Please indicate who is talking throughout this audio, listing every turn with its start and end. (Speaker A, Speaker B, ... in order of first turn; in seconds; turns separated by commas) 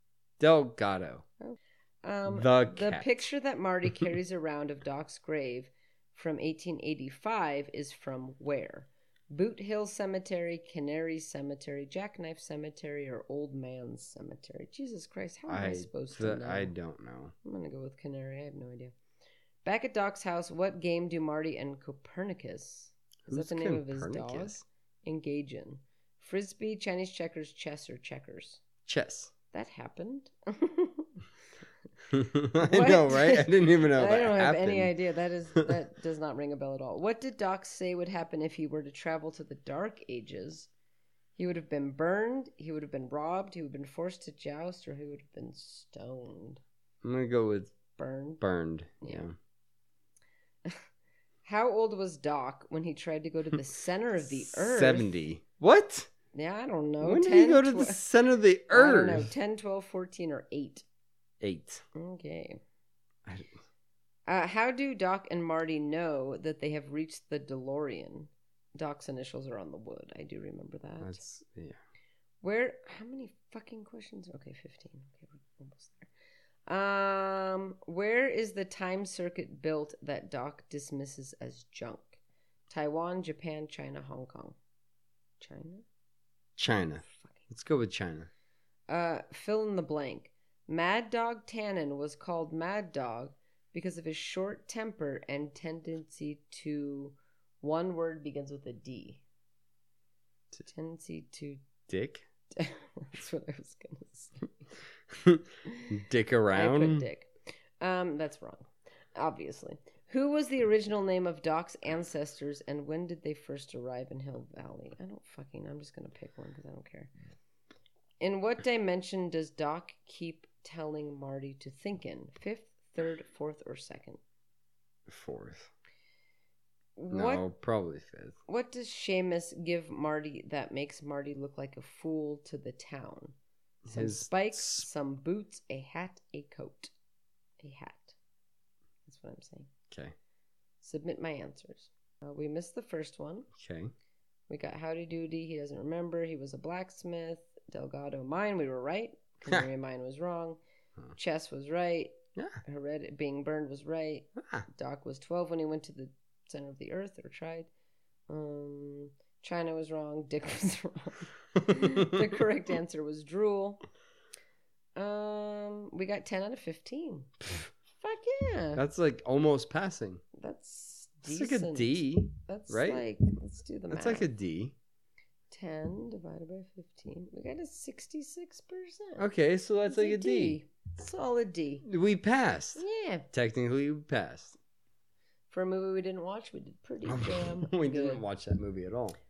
Speaker A: 0.4-1.2, Speaker B: 1.4-16.7, Speaker A: 2.3-3.3, Speaker A: 15.5-17.3, Speaker B: 17.4-18.9, Speaker B: 19.6-28.6, Speaker A: 23.3-24.6, Speaker A: 28.9-29.3, Speaker B: 29.5-31.1, Speaker A: 32.1-34.9, Speaker B: 32.6-40.7, Speaker B: 41.4-46.6, Speaker A: 47.0-47.7, Speaker B: 48.0-48.4, Speaker A: 48.4-49.3, Speaker B: 51.4-55.1, Speaker A: 54.4-56.1, Speaker B: 56.3-58.0, Speaker A: 57.0-59.3, Speaker B: 58.7-60.8, Speaker A: 61.4-61.8, Speaker B: 61.9-62.6, Speaker A: 63.2-63.5, Speaker B: 64.3-71.2, Speaker A: 71.0-71.8, Speaker B: 72.4-76.1, Speaker B: 76.7-82.2, Speaker B: 82.7-84.5, Speaker B: 85.4-85.8, Speaker A: 86.6-88.3, Speaker B: 87.0-87.5, Speaker B: 88.9-99.2, Speaker B: 100.6-101.6, Speaker A: 101.9-102.2, Speaker B: 102.5-104.5, Speaker A: 105.1-107.1, Speaker B: 106.5-107.3, Speaker B: 107.8-117.1, Speaker B: 118.2-124.2, Speaker A: 125.1-125.7, Speaker B: 127.0-127.4, Speaker A: 127.1-128.4, Speaker B: 128.5-133.3, Speaker A: 133.8-134.8, Speaker B: 133.9-136.9, Speaker B: 137.6-138.2, Speaker B: 139.1-139.7, Speaker B: 140.8-143.5, Speaker A: 143.6-143.9, Speaker B: 144.5-150.6, Speaker B: 151.2-157.7, Speaker A: 154.4-154.7, Speaker B: 158.3-163.8, Speaker A: 161.6-162.3, Speaker B: 164.9-167.3, Speaker B: 168.0-168.8, Speaker A: 168.8-170.2, Speaker B: 170.3-174.3, Speaker A: 171.2-173.0, Speaker A: 173.9-174.7, Speaker B: 175.5-179.2, Speaker A: 179.2-180.6, Speaker B: 179.8-181.8, Speaker A: 181.8-184.6, Speaker B: 182.8-183.2, Speaker B: 185.5-188.2, Speaker A: 187.1-189.2